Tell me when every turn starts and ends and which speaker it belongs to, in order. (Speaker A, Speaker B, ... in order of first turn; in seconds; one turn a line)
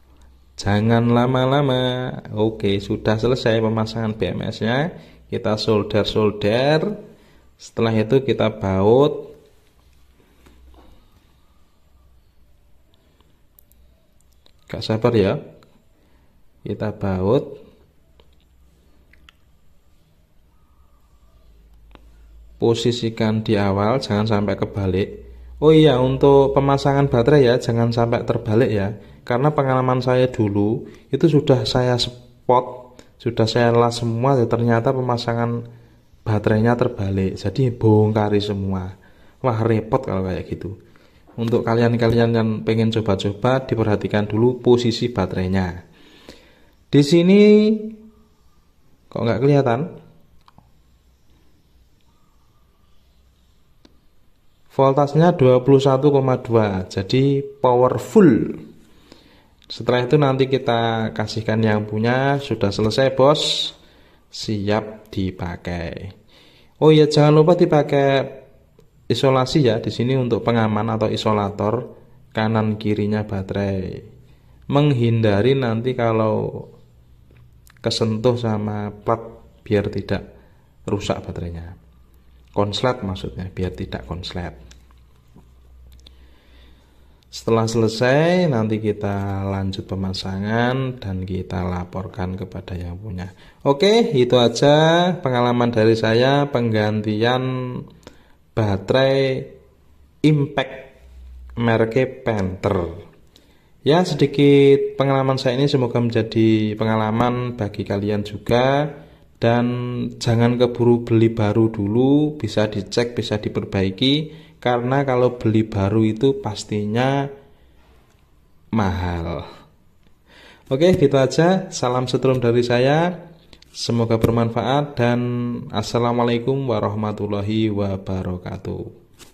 Speaker A: 0.6-6.9
Speaker A: 7.6-9.3
Speaker A: 14.7-15.4
Speaker A: 16.6-17.5
Speaker A: 22.6-35.6
Speaker A: 36.3-40.7
Speaker A: 41.4-45.8
Speaker A: 46.9-48.0
Speaker A: 49.1-49.9
Speaker A: 54.7-58.6
Speaker A: 59.7-63.8
Speaker A: 64.3-66.1
Speaker A: 66.8-68.4
Speaker A: 69.1-74.0
Speaker A: 74.7-76.7
Speaker A: 77.8-80.2
Speaker A: 80.9-81.8
Speaker A: 82.5-84.6
Speaker A: 87.3-97.8
Speaker A: 98.6-99.5
Speaker A: 100.2-100.9
Speaker A: 101.6-103.0
Speaker A: 103.9-117.2
Speaker A: 118.8-119.5
Speaker A: 120.7-123.2
Speaker A: 123.8-128.9